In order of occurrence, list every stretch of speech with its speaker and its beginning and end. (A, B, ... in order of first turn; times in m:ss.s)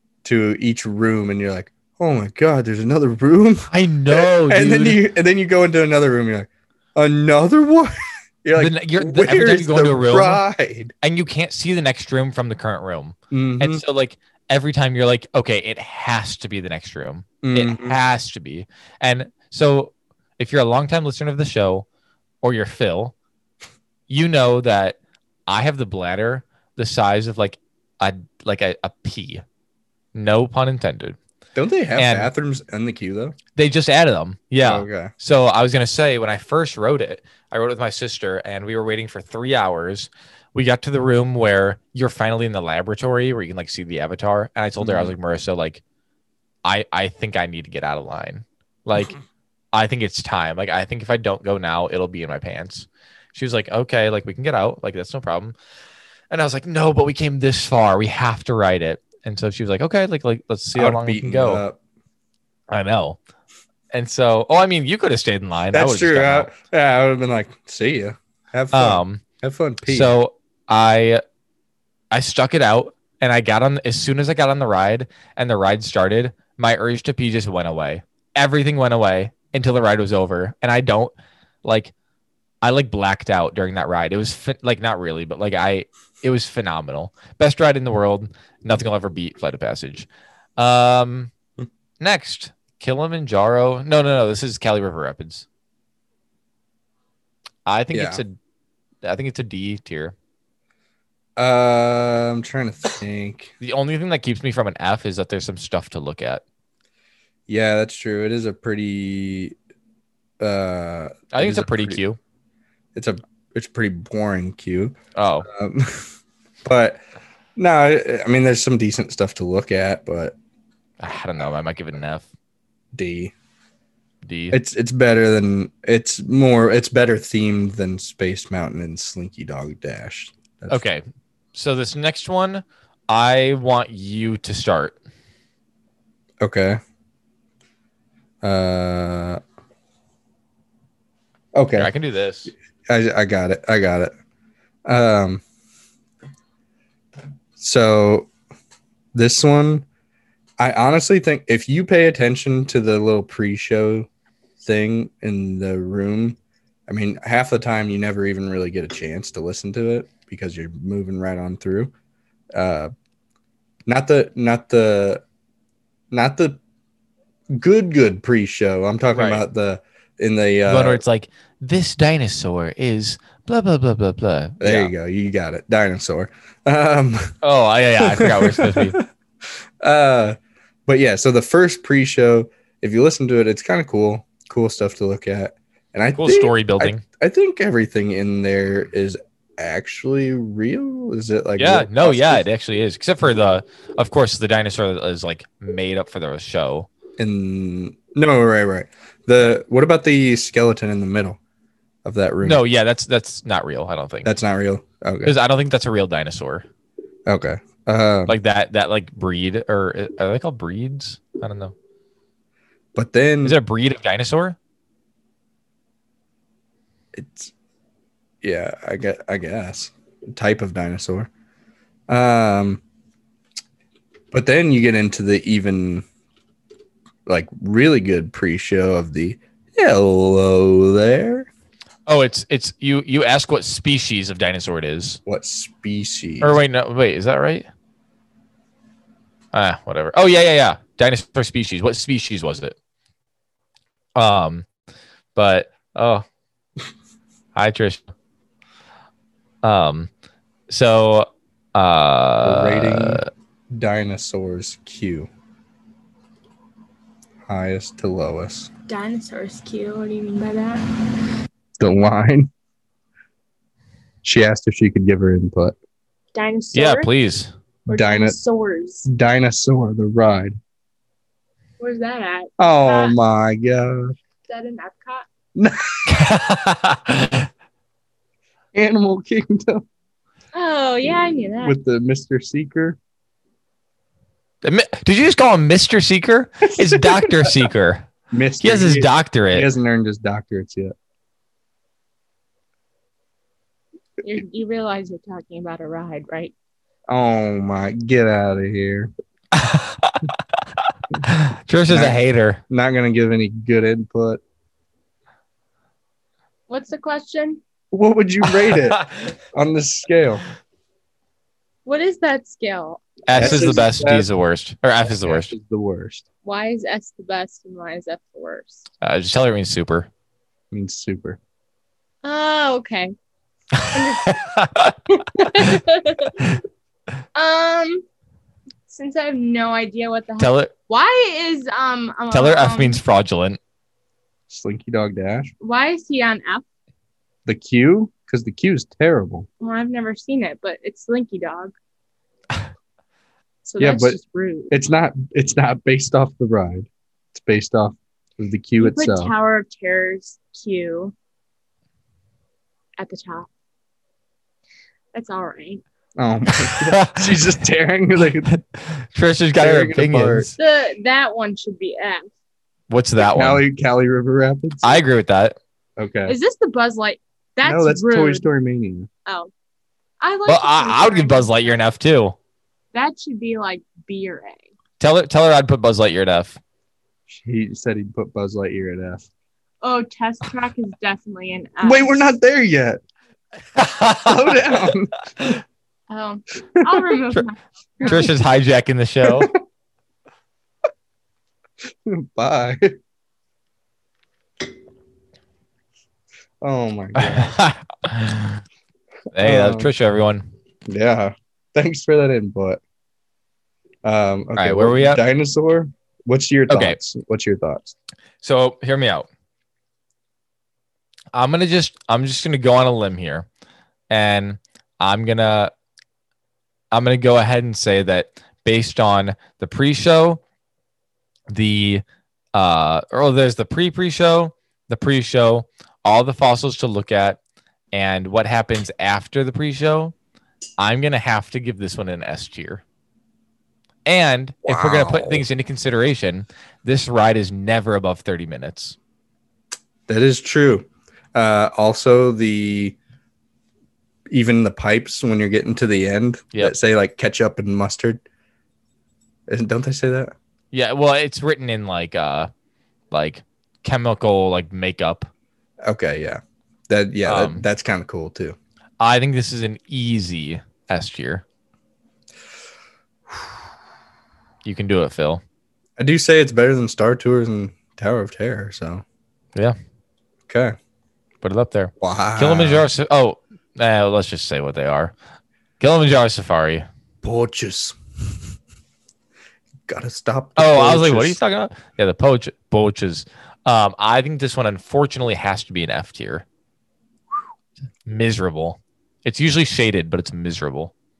0:00.2-0:10.9 A
0:03.7-0:05.0 B
0:08.6-0:10.4 B
0:11.0-0:21.8 B
0:13.3-0:13.8 A
0:17.4-0:18.0 A
0:22.4-0:23.1 B
0:24.1-0:29.4 B
0:30.1-0:31.2 B
0:31.6-0:33.4 A
0:32.0-0:32.3 B
0:33.6-0:45.8 B
0:34.6-0:35.1 A
0:44.8-0:45.1 A
0:46.6-0:49.2 B
0:49.7-0:55.5 B
0:56.3-1:01.6 B
1:00.7-1:01.8 A
1:02.7-1:03.2 B
1:03.9-1:06.5 B
1:05.7-1:10.1 A
1:08.7-1:09.2 B
1:09.8-1:11.2 B
1:12.1-1:21.1 B
1:21.6-1:21.9 B
1:22.6-1:31.3 B
1:32.0-1:35.4 B
1:37.6-1:38.4 B
1:37.9-1:38.2 A
1:39.0-1:40.1 B
1:41.4-1:43.5 A
1:43.6-1:46.4 B
1:47.5-1:49.5 A
1:50.4-1:52.0 A
1:51.3-1:52.2 B
1:52.9-1:55.0 A
1:55.2-1:55.5 B
1:55.5-1:56.1 A
1:56.6-1:57.0 A
1:57.6-2:00.3 A
2:01.0-2:02.3 B
2:02.9-2:03.3 A
2:04.2-2:04.6 B
2:04.5-2:10.8 A
2:10.7-2:11.0 B
2:11.5-2:15.0 B
2:16.4-2:16.8 A
2:18.4-2:19.4 A
2:21.5-2:21.9 A
2:21.8-2:22.5 B
2:22.9-2:24.1 A
2:24.8-2:25.4 A
2:27.6-2:28.3 A
2:29.1-2:29.8 A
2:30.6-2:34.1 A
2:34.6-2:36.4 A
2:36.9-2:41.9 A
2:42.5-2:42.9 A
2:43.9-2:45.2 A
2:46.1-2:46.6 A
2:47.5-2:51.0 A
2:49.1-2:49.4 B
2:50.6-2:54.9 B
2:54.6-2:57.3 A
2:57.4-2:59.0 B
2:58.0-2:59.0 A
2:59.8-3:12.4 A
3:06.2-3:07.0 B
3:11.6-3:16.9 B
3:17.2-3:21.4 A
3:22.0-3:22.6 A
3:22.4-3:24.3 B
3:24.2-3:25.3 A
3:25.2-3:26.7 B
3:27.3-3:28.3 A
3:28.3-3:31.7 B
3:32.9-3:33.6 A
3:33.4-3:34.6 B
3:37.1-3:37.5 A
3:38.4-3:41.3 A
3:42.1-3:42.8 A
3:44.3-3:46.0 A
3:47.2-3:51.5 A
3:52.1-3:55.2 B
3:55.3-3:56.6 A
3:56.4-3:57.7 B
3:59.5-4:02.8 B
4:04.2-4:04.7 B
4:05.3-4:06.2 B
4:07.5-4:08.0 B
4:09.6-4:10.1 B
4:10.7-4:13.3 B
4:12.4-4:15.3 A
4:17.5-4:18.7 A
4:18.9-4:20.8 C
4:21.8-4:22.5 A
4:24.2-4:25.8 A
4:26.3-4:27.1 C
4:26.7-4:27.5 B
4:27.9-4:28.4 A
4:27.9-4:29.0 C
4:29.0-4:30.6 A
4:31.8-4:33.1 C
4:32.6-4:34.1 A
4:34.5-4:35.2 C
4:35.5-4:36.1 A
4:36.1-4:37.5 B
4:38.7-4:39.8 A
4:40.5-4:41.8 C
4:41.6-4:43.0 A
4:44.6-4:48.1 B
4:46.8-4:47.7 A
4:48.3-4:50.9 A
4:48.6-4:49.7 B
4:54.2-4:56.5 C
4:57.1-4:59.1 A
4:59.5-5:00.4 B
5:01.2-5:02.6 B
5:01.9-5:02.2 A
5:02.7-5:04.4 A
5:06.7-5:07.6 C
5:07.9-5:10.4 A
5:08.6-5:09.1 B
5:11.8-5:13.9 C
5:13.3-5:15.5 B
5:13.4-5:14.3 A
5:15.1-5:16.2 A
5:16.4-5:18.8 C
5:19.0-5:20.1 B
5:20.7-5:21.4 A
5:22.2-5:23.1 C
5:23.7-5:25.4 B
5:23.9-5:24.4 C
5:25.2-5:26.4 C
5:27.3-5:28.0 C
5:28.9-5:33.0 C
5:30.4-5:30.7 B
5:32.3-5:33.6 B
5:34.5-5:35.5 A
5:35.6-5:36.6 C
5:37.4-5:39.5 A
5:39.6-5:41.7 C
5:43.6-5:44.8 C
5:43.8-5:44.2 A
5:44.7-5:49.3 A
5:48.8-5:51.1 C
5:53.0-5:53.5 C
5:55.1-5:55.8 C
5:56.2-5:58.5 A
5:56.6-5:57.4 B
5:58.5-6:00.5 B
5:59.6-6:00.6 A
6:00.6-6:02.3 C
6:02.9-6:03.6 B
6:03.2-6:05.0 A
6:04.8-6:05.6 B
6:06.0-6:06.3 A
6:06.2-6:08.4 C
6:07.6-6:09.1 A
6:10.2-6:11.9 C
6:10.5-6:12.4 B
6:12.9-6:14.6 C
6:15.0-6:16.6 B
6:17.3-6:19.3 A
6:19.8-6:22.3 C
6:21.8-6:23.0 A
6:23.8-6:24.8 B
6:24.2-6:25.2 A
6:26.1-6:28.3 C
6:28.0-6:29.5 B
6:29.2-6:29.5 A
6:32.0-6:32.9 A
6:36.6-6:37.5 A
6:37.2-6:38.6 B
6:39.3-6:40.5 B
6:39.4-6:39.9 A
6:40.9-6:42.8 A
6:44.0-6:47.9 A
6:44.6-6:45.2 B
6:46.7-6:47.0 B
6:48.4-6:49.3 B
6:51.3-6:53.5 B
6:54.1-6:55.7 B
6:56.9-7:00.4 B
7:01.5-7:02.0 B
7:02.5-7:07.4 B
7:07.9-7:10.1 B
7:10.8-7:12.8 B
7:14.0-7:19.0 B
7:14.6-7:15.4 A
7:20.1-7:23.0 A
7:24.3-7:28.2 A
7:29.5-7:30.3 A
7:30.7-7:32.5 B
7:33.1-7:35.3 B
7:35.8-7:38.6 A
7:37.2-7:37.6 B
7:39.0-7:41.4 B
7:44.6-7:45.4 B
7:46.0-7:49.0 A
7:50.5-7:50.8 A
7:51.4-7:55.1 B
7:52.0-7:52.9 A
7:55.8-7:56.9 B
7:57.2-7:58.0 A
7:59.9-8:01.4 A
8:00.6-8:06.4 B
8:08.0-8:10.9 B